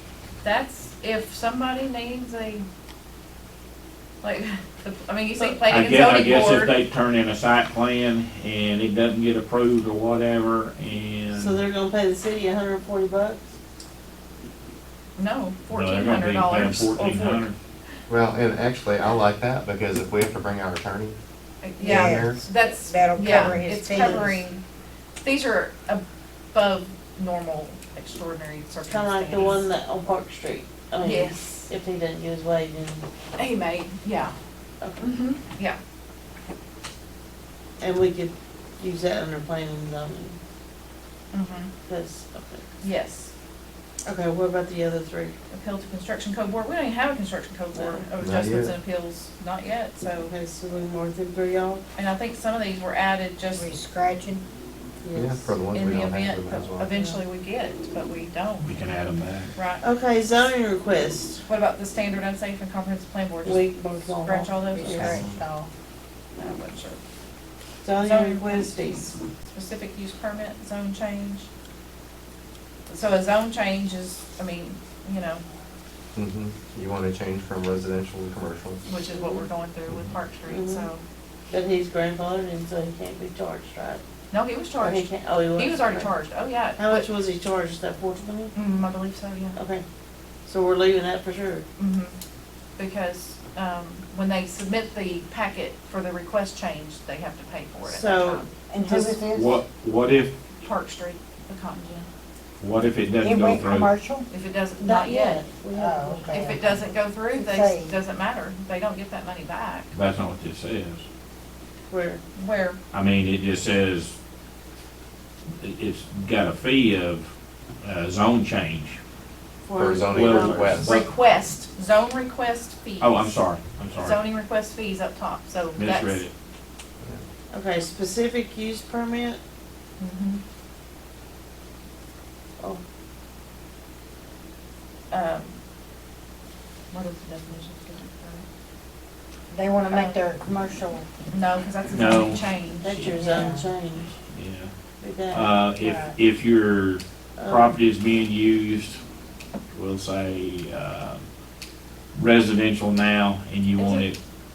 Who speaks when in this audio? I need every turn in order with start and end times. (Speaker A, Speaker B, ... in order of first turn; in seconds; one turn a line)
Speaker A: 0.4-2.6
Speaker A: 4.2-6.7
Speaker B: 5.7-11.6
Speaker C: 11.3-13.5
Speaker A: 15.2-17.4
Speaker B: 15.7-17.6
Speaker C: 17.0-17.4
Speaker D: 18.1-21.2
Speaker A: 21.6-24.6
Speaker E: 21.8-24.4
Speaker D: 21.8-22.4
Speaker A: 25.2-29.6
Speaker C: 28.9-33.1
Speaker A: 31.0-31.7
Speaker A: 33.4-34.4
Speaker A: 35.0-35.8
Speaker C: 37.8-40.4
Speaker A: 41.3-41.7
Speaker C: 41.9-42.8
Speaker A: 42.8-43.3
Speaker C: 44.0-45.4
Speaker A: 45.5-50.3
Speaker C: 47.7-48.0
Speaker D: 48.2-48.7
Speaker C: 50.2-51.8
Speaker A: 52.0-53.8
Speaker E: 53.5-54.4
Speaker C: 55.0-55.5
Speaker D: 55.1-56.9
Speaker A: 55.7-58.8
Speaker C: 56.9-57.2
Speaker B: 58.6-59.5
Speaker A: 59.5-59.8
Speaker C: 59.8-61.4
Speaker A: 61.5-65.2
Speaker C: 63.4-65.2
Speaker E: 64.7-65.7
Speaker A: 66.3-67.0
Speaker C: 67.8-69.2
Speaker A: 68.0-71.5
Speaker A: 72.9-75.4
Speaker D: 76.1-78.8
Speaker A: 78.8-81.0
Speaker C: 79.1-79.5
Speaker C: 80.5-80.9
Speaker C: 81.5-84.0
Speaker A: 84.3-87.1
Speaker C: 84.8-86.1
Speaker C: 86.8-88.5
Speaker A: 88.5-89.6
Speaker C: 89.6-89.8
Speaker C: 90.5-91.7
Speaker A: 91.8-92.1
Speaker A: 92.8-98.6
Speaker C: 97.8-99.2
Speaker E: 98.7-99.6
Speaker B: 99.3-100.3
Speaker A: 100.6-102.1
Speaker B: 102.6-103.9
Speaker E: 103.2-104.3
Speaker A: 104.3-105.5
Speaker C: 104.8-106.7
Speaker E: 105.7-108.0
Speaker A: 106.3-109.9
Speaker B: 109.9-111.0
Speaker C: 111.9-112.2
Speaker A: 112.3-112.8
Speaker B: 112.9-114.2
Speaker B: 115.6-119.0
Speaker C: 119.6-120.9
Speaker D: 119.8-121.0
Speaker B: 120.1-121.1
Speaker A: 120.8-123.3
Speaker B: 123.0-124.2
Speaker A: 124.0-126.3
Speaker B: 125.8-126.3
Speaker C: 127.5-129.4
Speaker A: 130.0-130.4
Speaker A: 135.1-135.6
Speaker A: 136.9-138.5
Speaker E: 139.5-141.1
Speaker A: 139.9-140.1
Speaker A: 141.3-143.4
Speaker B: 141.9-142.4
Speaker C: 142.8-144.2
Speaker E: 143.2-143.6
Speaker B: 144.3-144.7
Speaker C: 145.0-145.6
Speaker B: 145.3-149.0
Speaker E: 145.8-146.1
Speaker C: 147.3-147.7
Speaker B: 149.7-151.2
Speaker B: 152.1-154.2
Speaker A: 153.8-154.1